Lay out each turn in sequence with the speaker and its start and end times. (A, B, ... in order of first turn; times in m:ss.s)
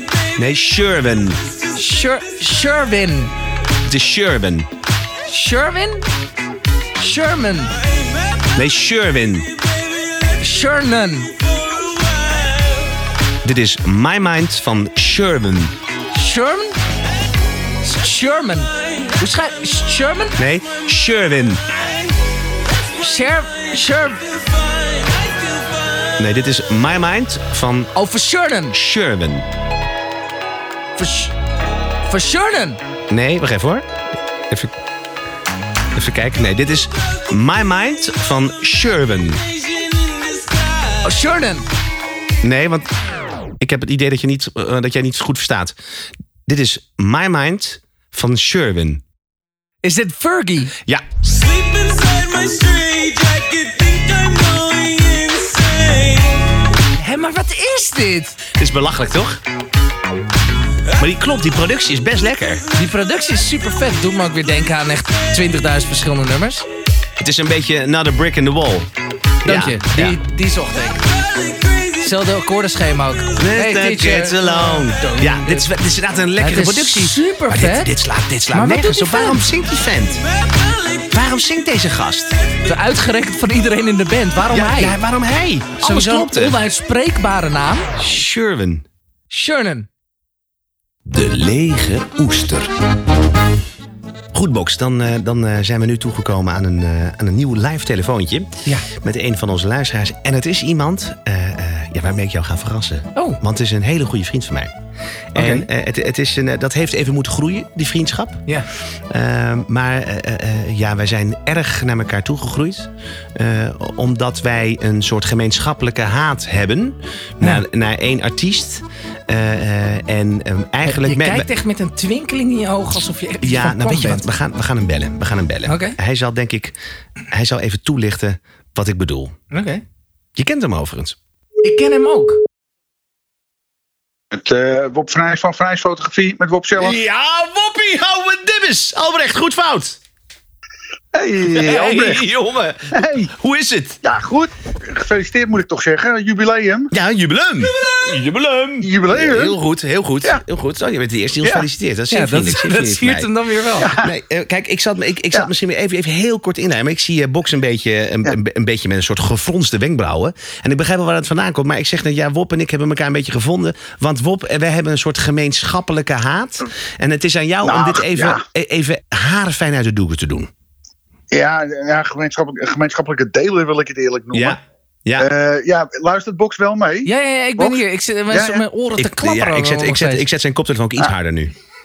0:00.4-0:01.4 A
0:01.7-0:03.3 B
0:03.8-0:04.7 A
0:05.2-0:06.0 B
0:06.9-0:07.8 B
0:08.5-0:09.5 A
0:10.4-0:11.3 B
0:13.4-0:15.7 A
0:16.1-0:16.8 B
0:17.8-0:20.4 B
0:20.4-0:21.7 A
0:22.9-0:24.4 B
0:26.2-0:27.9 A
0:27.9-0:28.8 B
0:28.7-0:29.4 A
0:31.0-0:31.3 B
0:32.0-0:32.8 B
0:33.1-0:33.8 A
0:35.9-0:39.4 A
0:41.0-0:41.7 B
0:42.4-0:42.9 A
0:43.6-0:45.7 A
0:46.4-0:49.0 A
0:49.8-0:50.7 B
0:54.2-0:54.6 B
0:56.9-0:58.4 B
0:58.6-0:59.4 A
1:01.0-1:02.6 A
1:02.7-1:06.6 B
1:07.2-1:08.9 A
1:09.4-1:11.2 B
1:09.4-1:10.2 A
1:11.9-1:15.7 B
1:13.4-1:20.2 A
1:16.4-1:17.9 B
1:18.5-1:19.5 B
1:21.0-1:22.4 A
1:22.6-1:25.0 B
1:24.5-1:26.6 A
1:25.8-1:27.9 B
1:27.9-1:28.8 A
1:29.3-1:29.9 B
1:31.0-1:32.7 A
1:34.3-1:44.7 A
1:45.3-1:48.4 A
1:45.3-1:45.7 B
1:49.1-2:01.5 A
2:00.8-2:04.3 B
2:03.4-2:06.7 A
2:05.6-2:06.0 B
2:07.3-2:09.3 A
2:09.5-2:09.8 B
2:10.4-2:11.2 A
2:11.6-2:12.4 B
2:14.3-2:17.0 C
2:16.8-2:20.0 A
2:21.1-2:22.2 C
2:21.4-2:24.0 A
2:22.9-2:23.3 C
2:24.0-2:26.9 C
2:26.9-2:33.3 A
2:28.8-2:29.6 C
2:32.1-2:33.9 B
2:33.8-2:34.1 C
2:34.0-2:50.5 A
2:47.6-2:48.4 C
2:51.3-2:54.6 C
2:54.3-2:55.3 A
2:55.2-2:58.6 C
2:57.0-3:00.2 B
2:59.0-3:01.5 A